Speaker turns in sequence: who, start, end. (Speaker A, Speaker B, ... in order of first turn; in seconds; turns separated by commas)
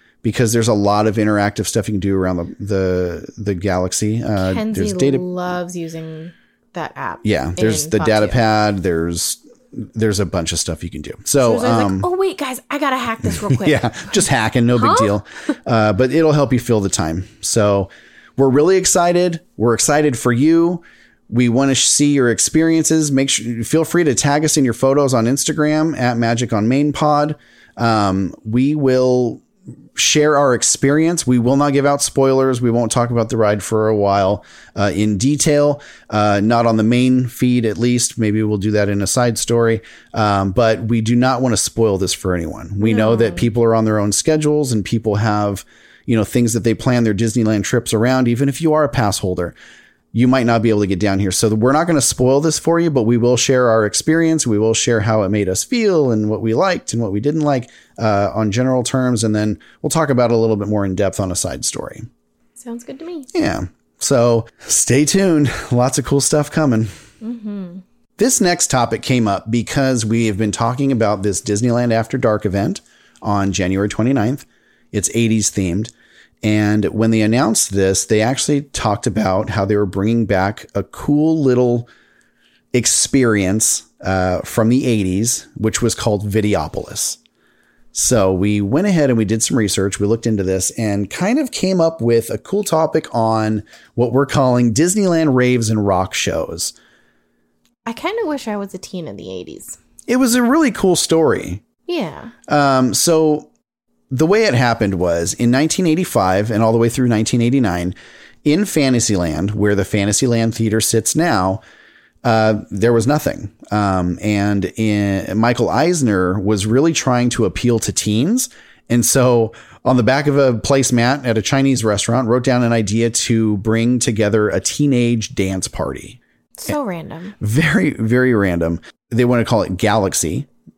Speaker A: 0.2-5.3, Speaker B: 4.4-8.4, Speaker A: 7.2-12.1, Speaker B: 11.4-14.2, Speaker A: 13.2-29.4, Speaker B: 14.7-15.1, Speaker A: 29.9-49.5, Speaker B: 42.8-43.5, Speaker A: 50.1-62.1, Speaker B: 62.6-63.3, Speaker A: 63.3-66.9, Speaker B: 67.2-67.8, Speaker A: 68.2-75.9, Speaker A: 76.4-81.9, Speaker A: 82.7-87.2, Speaker A: 87.9-96.7, Speaker B: 97.9-99.8, Speaker A: 100.1-101.6, Speaker B: 101.9-102.3, Speaker A: 102.5-103.5, Speaker A: 104.1-111.6, Speaker A: 112.2-126.7, Speaker B: 126.6-127.3, Speaker A: 127.4-130.5